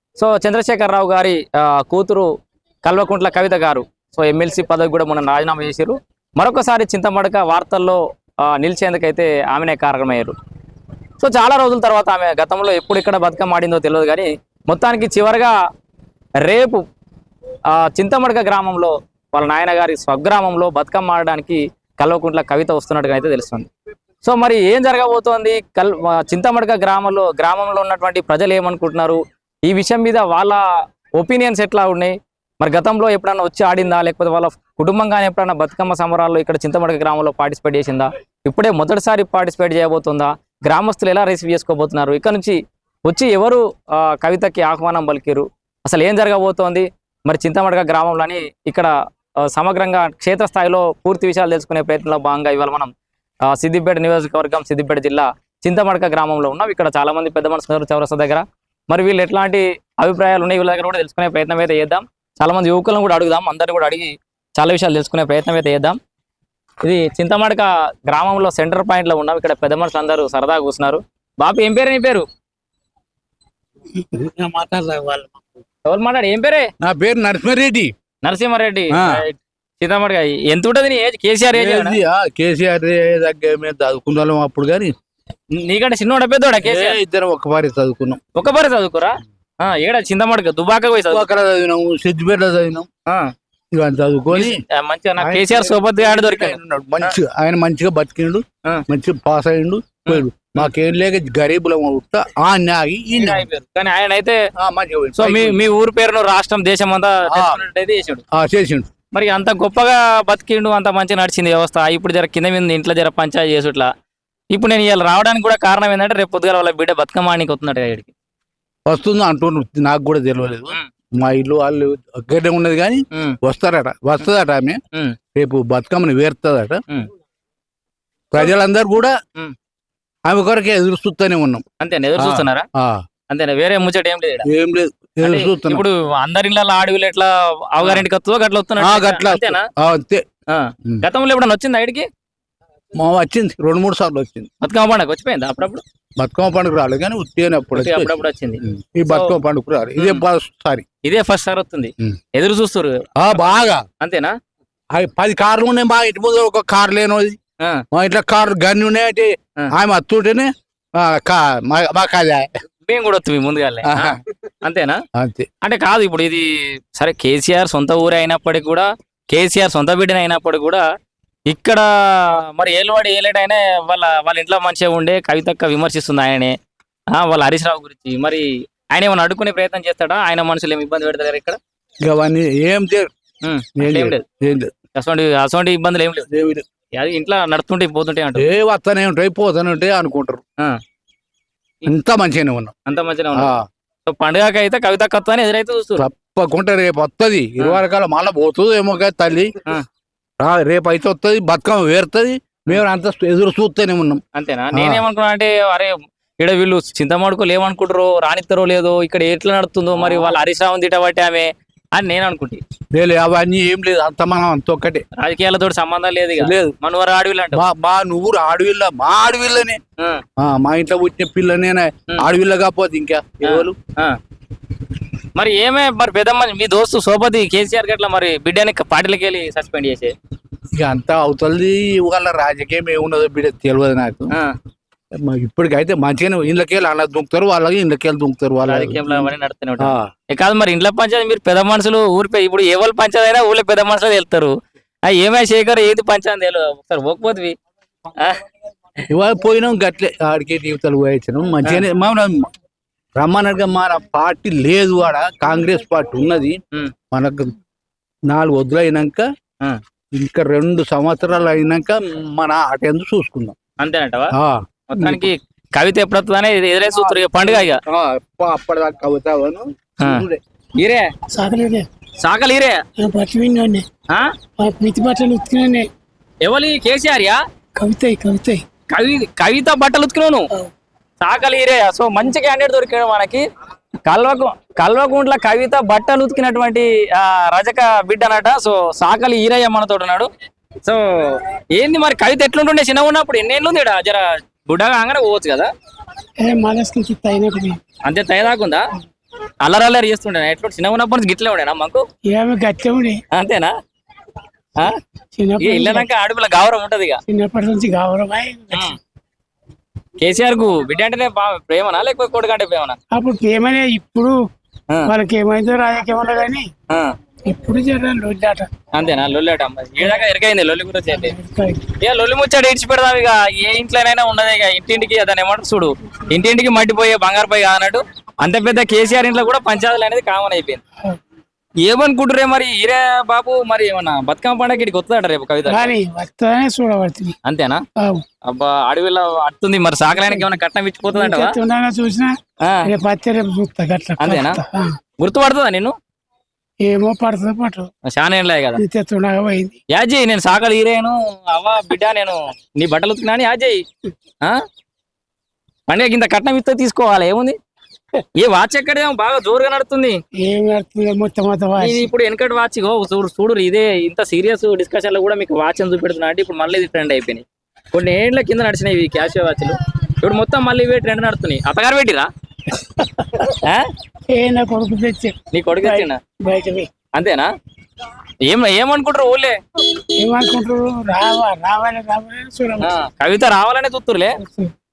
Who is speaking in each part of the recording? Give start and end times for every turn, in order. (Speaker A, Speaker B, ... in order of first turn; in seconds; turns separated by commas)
Speaker A: 0.2-2.3, Speaker A: 2.8-10.3, Speaker A: 11.2-15.5, Speaker A: 16.4-16.8, Speaker A: 17.7-23.7, Speaker A: 24.2-30.6, Speaker A: 31.1-48.9, Speaker A: 49.5-52.9, Speaker A: 53.5-66.0, Speaker A: 66.8-72.2, Speaker B: 74.1-75.3, Speaker A: 75.8-76.7, Speaker B: 76.8-77.9, Speaker A: 78.2-82.0, Speaker B: 79.0-79.2, Speaker B: 81.5-84.9, Speaker A: 85.5-87.0, Speaker B: 86.6-88.2, Speaker A: 88.3-91.2, Speaker B: 91.1-92.9, Speaker B: 93.7-94.6, Speaker A: 94.3-97.1, Speaker B: 95.2-103.4, Speaker A: 100.1-100.7, Speaker A: 103.2-104.4, Speaker B: 104.6-105.6, Speaker A: 105.1-108.2, Speaker B: 107.3-107.6, Speaker B: 108.3-108.9, Speaker A: 109.1-113.9, Speaker A: 114.5-118.1, Speaker B: 118.9-124.8, Speaker B: 125.3-126.8, Speaker B: 128.3-129.1, Speaker B: 130.2-131.6, Speaker A: 131.8-132.7, Speaker B: 132.2-133.0, Speaker A: 133.3-134.5, Speaker B: 134.4-135.8, Speaker A: 135.2-139.7, Speaker B: 138.8-140.2, Speaker A: 140.5-142.1, Speaker B: 142.9-144.5, Speaker A: 144.6-145.8, Speaker B: 146.2-150.8, Speaker A: 147.8-149.3, Speaker A: 150.0-150.2, Speaker A: 151.0-153.0, Speaker B: 153.2-153.8, Speaker A: 154.0-154.3, Speaker B: 154.9-157.4, Speaker B: 157.9-162.5, Speaker A: 162.8-165.0, Speaker B: 163.8-164.2, Speaker B: 165.2-165.4, Speaker A: 165.6-170.8, Speaker A: 171.5-176.5, Speaker A: 177.1-181.6, Speaker B: 182.0-183.1, Speaker A: 183.4-184.2, Speaker B: 183.8-184.7, Speaker A: 184.9-186.3, Speaker B: 186.3-186.7, Speaker A: 186.9-188.4, Speaker B: 188.3-190.4, Speaker B: 191.8-192.7, Speaker A: 192.8-196.1, Speaker B: 193.3-193.6, Speaker B: 196.0-199.5, Speaker B: 200.4-204.2, Speaker A: 204.3-212.6, Speaker B: 204.7-205.0, Speaker B: 209.9-210.3, Speaker B: 212.9-215.0, Speaker A: 215.2-217.6, Speaker B: 216.4-216.7, Speaker B: 217.5-219.8, Speaker B: 220.4-223.8, Speaker A: 223.4-224.2, Speaker A: 225.3-230.1, Speaker B: 230.8-234.3, Speaker B: 235.1-240.1, Speaker A: 238.6-244.5, Speaker A: 245.1-247.5, Speaker B: 249.1-252.5, Speaker B: 253.2-256.6, Speaker B: 257.1-257.5, Speaker B: 258.3-259.2, Speaker B: 260.1-263.6, Speaker A: 263.8-264.3, Speaker B: 264.4-265.3, Speaker A: 264.9-267.8, Speaker B: 266.9-270.4, Speaker A: 270.0-270.2, Speaker A: 270.8-271.1, Speaker C: 271.3-271.9, Speaker A: 272.2-272.8, Speaker C: 273.0-273.9, Speaker C: 274.6-275.9, Speaker A: 276.4-277.4, Speaker C: 277.8-278.6, Speaker A: 278.9-280.5, Speaker A: 281.2-283.4, Speaker A: 284.1-290.3, Speaker A: 290.8-295.7, Speaker C: 296.4-297.8, Speaker A: 298.1-298.8, Speaker A: 299.6-302.0, Speaker C: 302.3-303.2, Speaker A: 303.3-303.7, Speaker C: 305.3-306.1, Speaker A: 305.6-307.2, Speaker C: 307.3-308.9, Speaker A: 308.7-309.0, Speaker A: 310.2-313.0, Speaker C: 313.1-314.4, Speaker C: 315.0-316.7, Speaker C: 317.4-318.7, Speaker A: 318.9-321.3, Speaker C: 321.1-321.8, Speaker A: 322.0-330.8, Speaker A: 331.8-335.9, Speaker C: 335.6-337.4, Speaker A: 337.4-337.8, Speaker C: 338.0-338.2, Speaker A: 338.5-341.5, Speaker C: 340.2-340.4, Speaker C: 341.1-344.9, Speaker A: 342.6-342.9, Speaker A: 344.2-344.6, Speaker A: 345.2-345.9, Speaker C: 346.8-347.9, Speaker A: 348.1-348.8, Speaker C: 348.7-349.8, Speaker A: 349.9-353.8, Speaker A: 355.9-357.6, Speaker A: 358.4-360.2, Speaker C: 360.4-362.1, Speaker A: 361.8-372.3, Speaker A: 373.5-373.9, Speaker C: 374.3-376.9, Speaker A: 375.5-376.2, Speaker A: 377.1-377.5, Speaker A: 378.4-379.6, Speaker C: 380.2-382.9, Speaker A: 382.8-384.4, Speaker C: 384.4-384.7